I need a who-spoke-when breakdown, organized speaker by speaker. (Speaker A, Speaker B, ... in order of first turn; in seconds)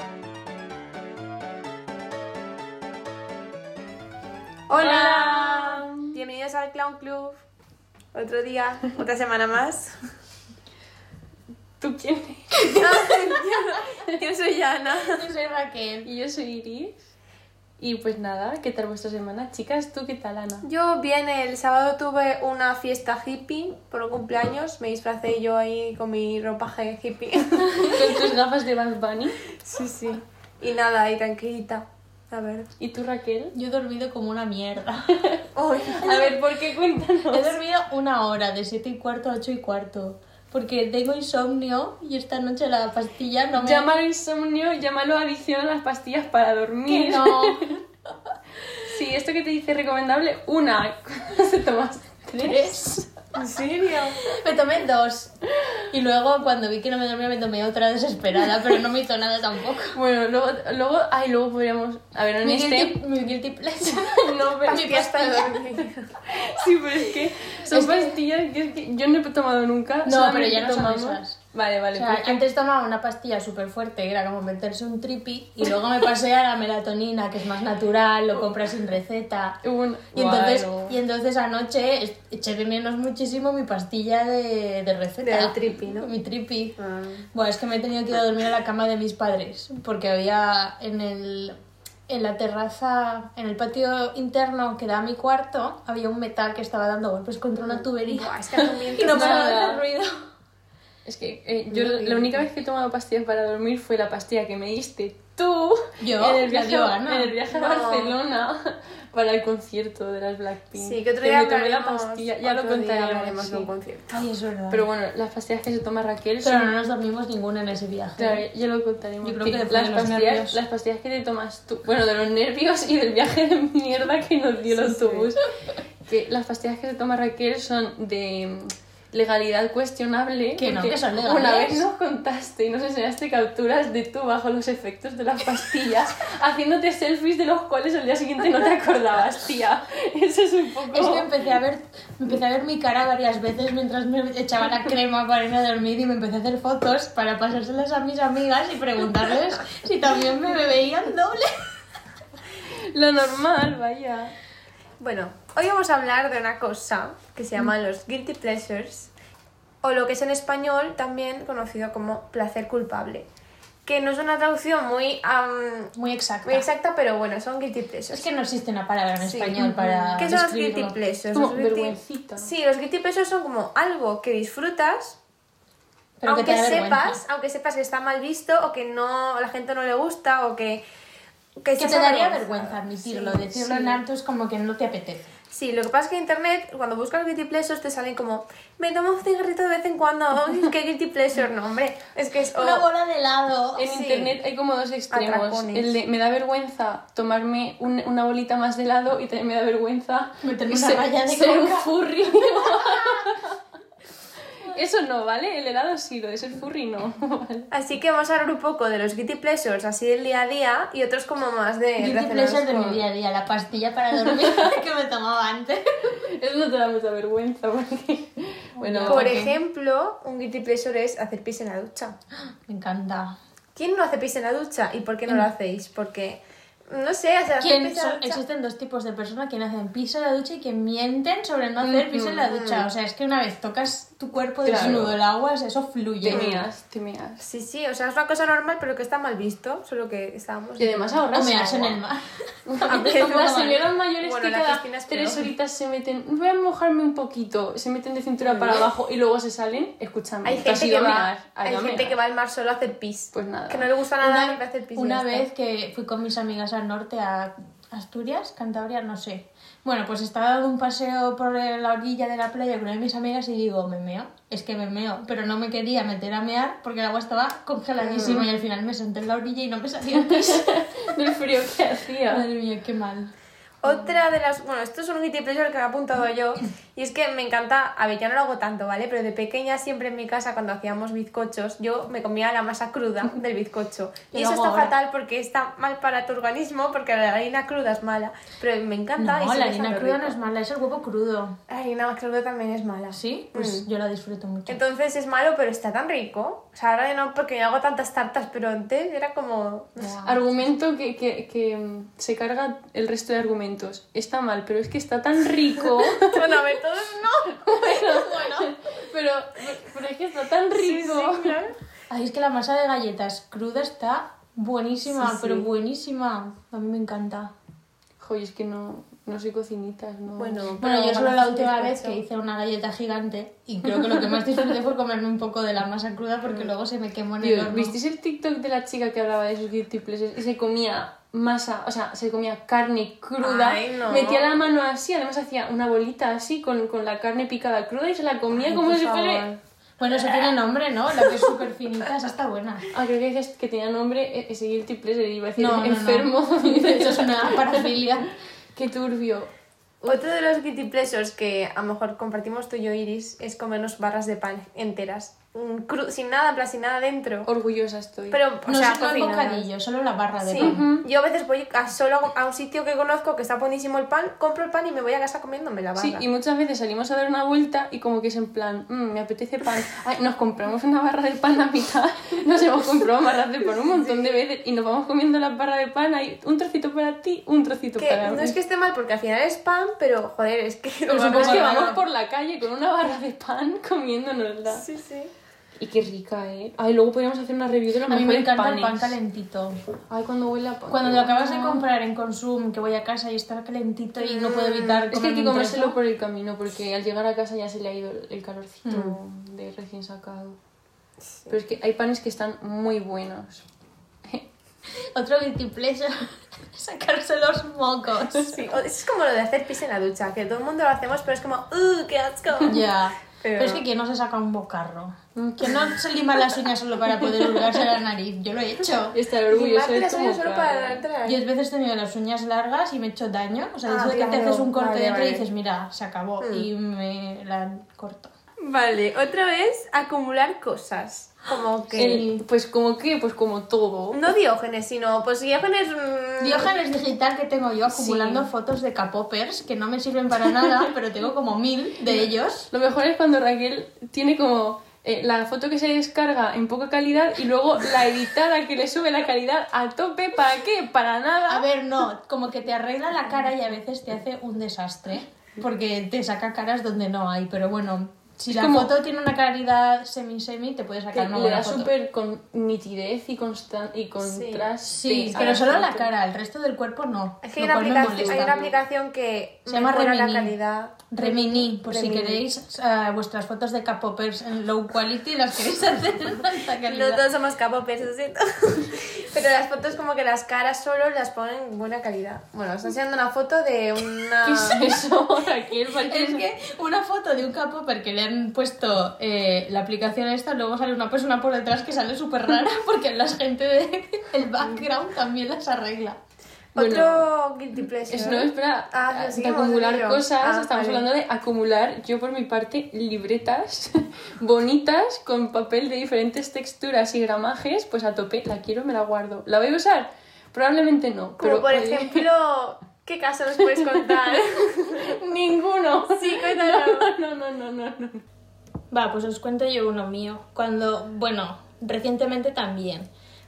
Speaker A: 4.7-7.4, 8.1-10.0, 12.8-15.3, 20.6-28.2, 29.6-32.7, 35.5-36.4, 53.4-54.2, 64.5-66.1, 85.2-86.1, 86.8-87.3, 97.7-99.8, 101.7-102.4, 107.5-108.1, 110.8-114.2, 124.8-125.3, 155.0-159.1, 159.8-163.3, 163.8-165.9, 166.4-168.3, 169.2-175.2, 176.3-180.8, 181.6-184.0, 185.5-192.8, 193.9-194.3, 195.1-195.9, 207.7-212.9, 219.1-222.2, 223.8-228.4, 232.5-232.9, 236.3-236.6, 237.4-241.3, 242.9-245.5, 248.4-248.9, 250.4-255.5, 268.0-268.4, 273.8-290.4, 291.7-293.9, 294.7-300.2, 306.1-308.3, 310.7-311.7, 315.1-315.7, 320.4-322.2, 333.4-334.6, 350.0-357.5, 358.3-359.7, 360.4-366.2, 374.0-374.3, 378.0-381.9, 384.7-385.3, 394.2-395.1, 408.5-412.8, 413.4-413.8, 419.5-421.4, 423.9-425.4, 426.4-426.7, 428.6-432.2, 434.1-436.8, 464.2-464.7, 465.3-465.6, 467.4-472.4, 476.9-485.1, 496.8-501.1, 511.4-515.2, 516.1-517.1
Speaker B: 4.8-6.2, 11.8-13.1, 16.0-17.1, 17.8-20.6, 27.6-29.4, 32.8-33.5, 35.1-37.6, 43.5-47.8, 48.8-53.1, 59.9-63.0, 64.0-65.0, 66.2-72.4, 79.6-81.0, 98.6-99.8, 101.0-113.7, 114.7-116.7, 118.2-125.4, 126.1-141.3, 152.7-154.3, 169.6-170.2, 171.3-172.5, 193.8-203.6, 204.6-207.7, 214.3-214.8, 216.1-219.5, 231.8-232.5, 234.6-235.1, 236.2-237.4, 240.8-242.0, 242.7-252.2, 253.3-253.9, 270.1-272.5, 300.2-306.5, 307.6-311.6, 318.2-320.9, 327.4-339.6, 342.9-347.9, 348.8-349.5, 357.5-358.4, 360.6-361.1, 366.0-378.6, 381.2-384.9, 385.8-389.1, 390.1-391.9, 395.1-400.6, 401.5-403.7, 415.4-415.9, 419.1-421.0, 432.0-434.3, 437.9-438.5, 442.1-451.7, 458.5-458.9, 461.1-466.1, 468.0-468.7, 484.4-486.5, 496.8-497.3, 498.1-512.3, 513.9-518.2
Speaker C: 15.0-16.1, 33.5-35.2, 37.3-43.9, 46.9-47.8, 52.4-53.0, 54.3-55.3, 55.9-60.0, 62.4-65.7, 67.6-68.2, 70.1-71.4, 71.9-79.6, 80.1-86.8, 87.3-91.6, 92.1-100.3, 106.0-107.4, 114.1-114.9, 116.4-118.5, 119.2-120.6, 130.6-131.8, 140.9-151.7, 165.9-166.7, 168.1-171.0, 176.2-177.2, 181.8-185.3, 192.6-193.9, 200.4-203.3, 212.0-216.1, 218.8-219.5, 222.7-223.4, 227.6-236.5, 241.3-242.3, 254.2-270.9, 272.3-273.3, 284.3-284.9, 289.2-291.6, 293.1-294.8, 300.0-300.4, 307.9-308.7, 312.1-317.5, 320.8-328.0, 338.6-339.5, 340.0-342.9, 345.6-348.3, 358.7-360.9, 381.1-382.0, 388.1-389.8, 390.9-396.0, 398.9-399.1, 405.1-408.6, 412.6-419.2, 421.2-428.3, 432.0-432.4, 436.4-442.7, 451.5-461.9, 464.9-468.7, 469.7-470.6, 471.1-477.2, 486.1-496.2, 518.9-523.1